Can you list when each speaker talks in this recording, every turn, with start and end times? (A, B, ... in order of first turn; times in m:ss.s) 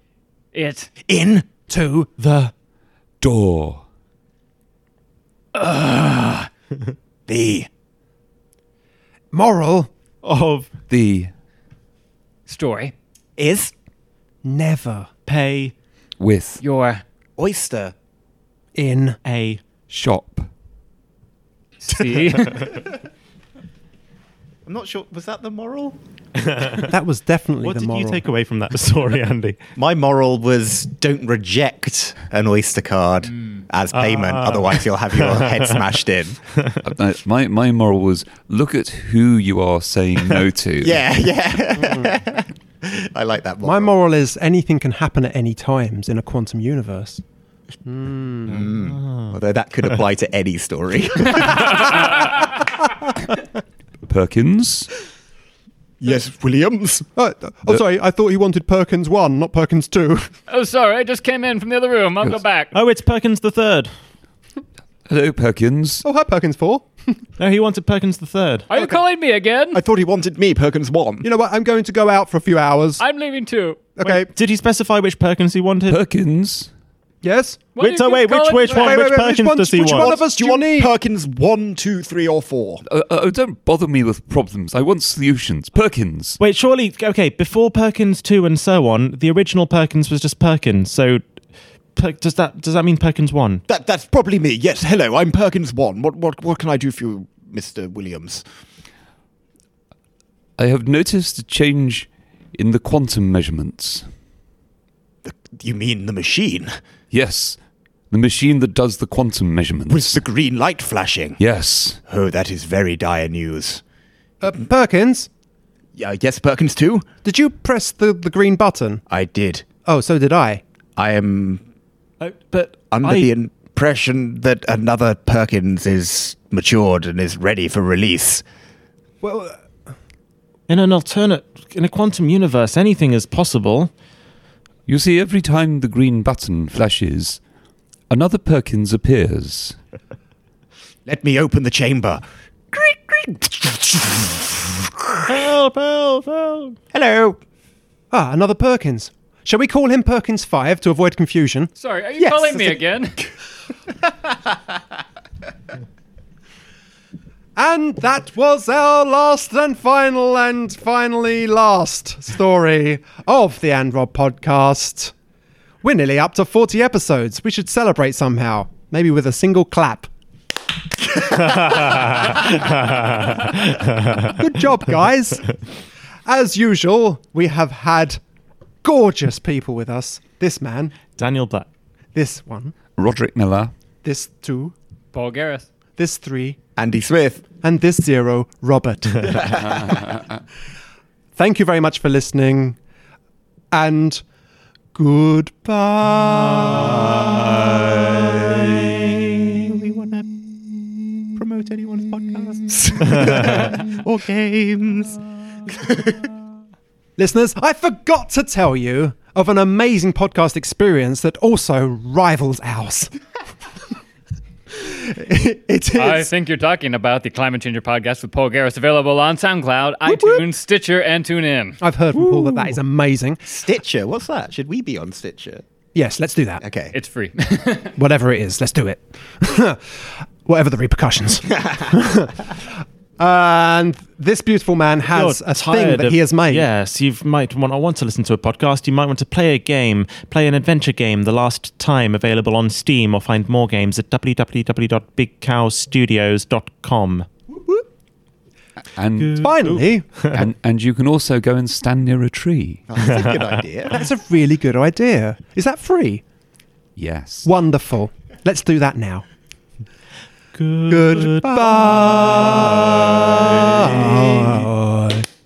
0:00.5-0:00.9 A
0:01.0-0:01.5 B
0:01.7-0:02.1 C
0:02.2-0:02.5 D
0:03.2-0:03.8 E
0:05.5-0:06.5 A
0:07.3-0:07.7 B
0:09.3-0:09.9 C
0:10.2-0:10.7 D
0:10.9-0:11.3 E
0:12.5-0:12.9 A
0:13.4-0:13.7 B
0:14.4-0:15.1 C
0:15.2-0:15.7 D
0:16.2-0:16.6 E
0:16.6-0:17.0 A
0:17.4-0:17.9 B
0:18.7-0:19.2 C
0:19.2-0:19.6 D
0:19.9-0:20.5 E
0:21.8-0:22.7 A
0:24.6-0:26.0 B
0:26.4-0:26.8 D
0:26.8-0:28.2 C
0:27.6-0:29.6 D
0:29.8-0:36.4 B
0:33.9-0:35.7 D
0:36.8-0:41.0 E
0:40.8-0:43.9 B
0:41.8-0:42.1 C
0:43.6-0:47.2 C
0:47.8-0:48.6 C
0:48.5-0:49.4 D
0:48.5-0:52.2 B
0:51.5-0:52.3 A
0:54.0-0:54.9 E
0:56.0-0:57.1 B
0:57.2-1:00.3 C
1:00.5-1:02.7 A
1:02.7-1:03.9 D
1:05.1-1:06.0 E
1:06.0-1:07.2 C
1:07.4-1:08.7 D
1:08.7-1:09.8 A
1:08.7-1:09.0 B
1:09.7-1:11.3 B
1:11.2-1:13.0 C
1:13.0-1:14.1 A
1:14.0-1:14.3 C
1:14.3-1:16.0 D
1:15.9-1:16.7 E
1:17.2-1:17.7 C
1:17.7-1:19.1 A
1:17.8-1:20.2 D
1:18.6-1:20.9 C
1:19.8-1:22.8 B
1:22.9-1:26.4 E
1:26.4-1:31.3 D
1:31.9-1:33.6 D
1:33.7-1:38.4 B
1:40.6-1:44.0 E
1:45.2-1:46.8 B
1:47.1-1:47.6 E
1:48.1-1:50.2 E
1:49.9-1:51.4 B
1:51.4-1:52.0 E
1:52.0-1:53.8 B
1:54.4-1:55.3 C
1:56.0-1:57.1 B
1:57.2-1:59.0 C
1:59.1-1:59.6 B
1:59.8-2:00.6 C
2:01.0-2:01.6 B
2:02.2-2:03.3 D
2:02.9-2:08.4 B
2:09.2-2:09.6 C
2:10.7-2:13.9 D
2:14.9-2:17.4 E
2:18.1-2:19.8 E
2:21.0-2:25.2 B
2:25.2-2:26.8 D
2:26.9-2:27.4 B
2:28.1-2:31.7 C
2:31.8-2:33.2 A
2:32.5-2:32.7 B
2:37.6-2:45.1 C
2:45.8-2:50.1 C
2:51.4-2:54.4 D
2:54.2-2:55.6 C
2:56.2-2:58.2 C
2:58.8-3:00.9 C
3:01.2-3:01.7 D
3:02.1-3:02.7 C
3:03.0-3:03.7 E
3:04.0-3:04.7 C
3:05.1-3:05.7 A
3:06.0-3:06.6 C
3:06.8-3:07.4 B
3:07.6-3:09.9 C
3:11.4-3:12.8 C
3:13.7-3:14.2 C
3:14.9-3:17.2 C
3:16.7-3:20.3 B
3:21.4-3:26.3 B
3:27.2-3:33.1 C
3:34.7-3:36.3 C
3:35.9-3:41.8 A
3:40.1-3:40.3 B
3:41.8-3:43.4 C
3:42.1-3:42.8 B
3:43.4-3:45.6 B
3:45.9-3:46.6 C
3:46.6-3:46.9 B
3:46.9-3:47.9 A
3:48.0-3:56.7 C
3:55.1-4:07.3 D
4:08.9-4:09.5 E
4:09.2-4:10.4 D
4:09.4-4:10.1 C
4:10.3-4:12.8 E
4:12.9-4:14.0 B
4:13.9-4:16.2 C
4:17.0-4:17.5 E
4:17.4-4:19.2 C
4:20.5-4:21.5 D
4:20.9-4:25.2 C
4:21.4-4:24.5 B